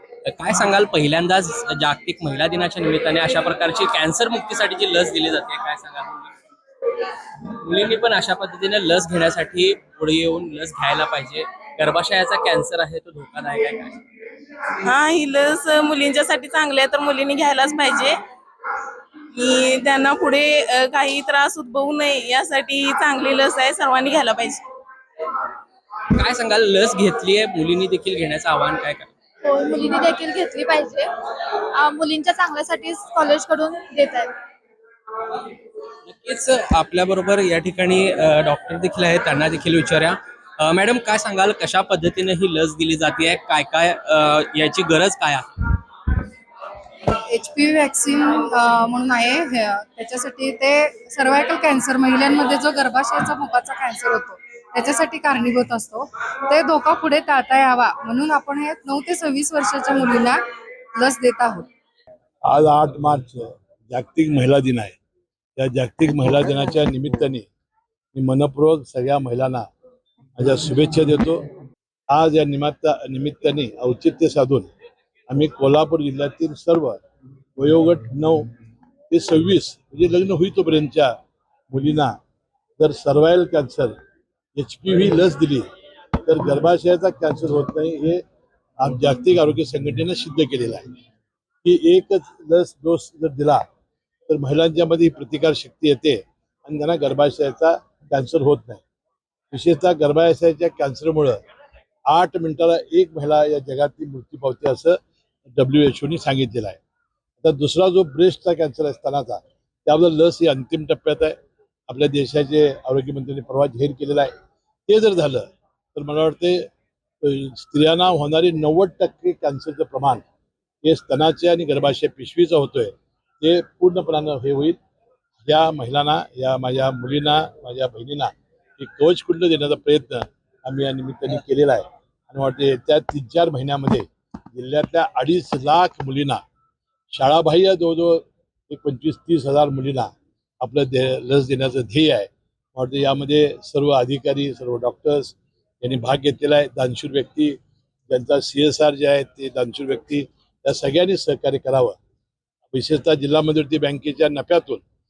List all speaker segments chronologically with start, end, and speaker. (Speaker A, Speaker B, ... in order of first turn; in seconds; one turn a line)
Speaker A: 0.3-6.4
Speaker A: 7.3-14.0
Speaker B: 14.8-18.2
Speaker B: 19.3-24.6
Speaker A: 26.1-29.1
Speaker C: 29.4-31.1
Speaker C: 31.7-34.3
Speaker A: 36.1-45.8
Speaker D: 47.1-60.4
Speaker D: 61.0-61.7
Speaker E: 62.5-65.0
Speaker E: 65.6-67.5
Speaker E: 68.1-69.7
Speaker E: 70.4-71.5
Speaker E: 72.1-74.7
Speaker E: 75.3-77.0
Speaker E: 77.6-78.5
Speaker E: 79.1-81.2
Speaker E: 81.7-82.2
Speaker E: 82.8-84.0
Speaker E: 84.5-85.7
Speaker E: 86.2-88.2
Speaker E: 88.8-90.9
Speaker E: 91.6-93.6
Speaker E: 94.3-98.8
Speaker E: 99.5-101.4
Speaker E: 102.1-105.0
Speaker E: 105.5-106.8
Speaker E: 107.4-114.3
Speaker E: 114.9-116.7
Speaker E: 117.2-120.2
Speaker E: 120.8-124.8
Speaker E: 125.4-136.4
Speaker E: 137.1-147.6
Speaker E: 148.1-152.0
Speaker E: 152.7-154.8